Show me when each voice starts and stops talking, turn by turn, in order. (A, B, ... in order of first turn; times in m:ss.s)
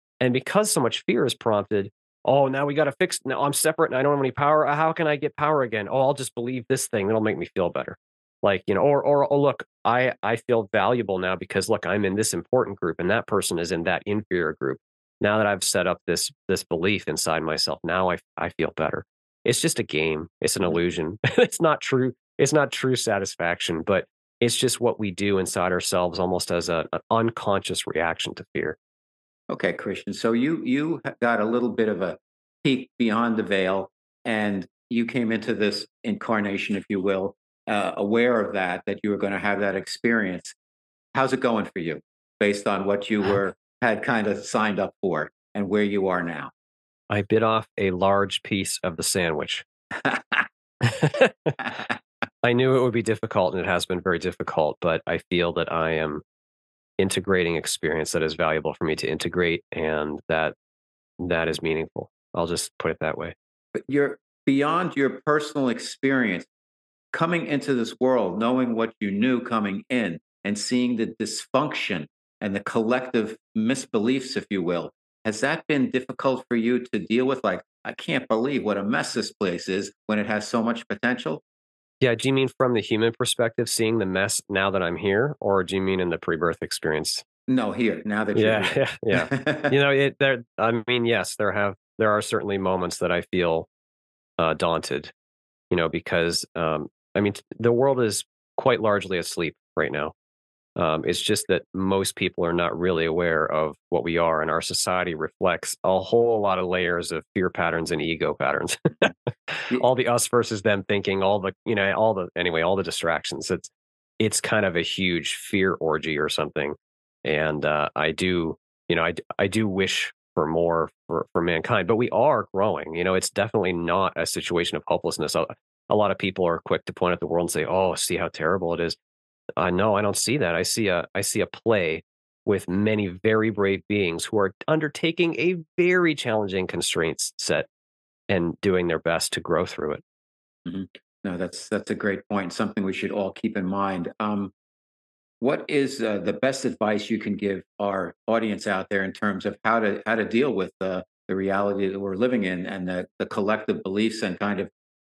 0:00.2-0:28.8 A
0:29.5-0:40.5 B
0:41.1-0:46.5 B
0:47.1-0:49.6 A
0:50.1-0:50.4 B
0:50.8-0:51.6 A
0:52.4-0:56.2 A
0:57.0-1:00.5 A
1:01.2-1:03.3 A
1:03.8-1:06.5 B
1:07.1-1:21.4 B
1:22.0-1:27.2 A
1:27.5-1:29.8 B
1:28.3-1:33.7 A
1:34.4-1:35.1 A
1:35.7-1:40.1 A
1:40.8-2:09.0 A
2:09.6-2:17.7 A
2:18.3-2:20.0 A
2:20.6-2:24.5 B
2:25.4-2:34.7 B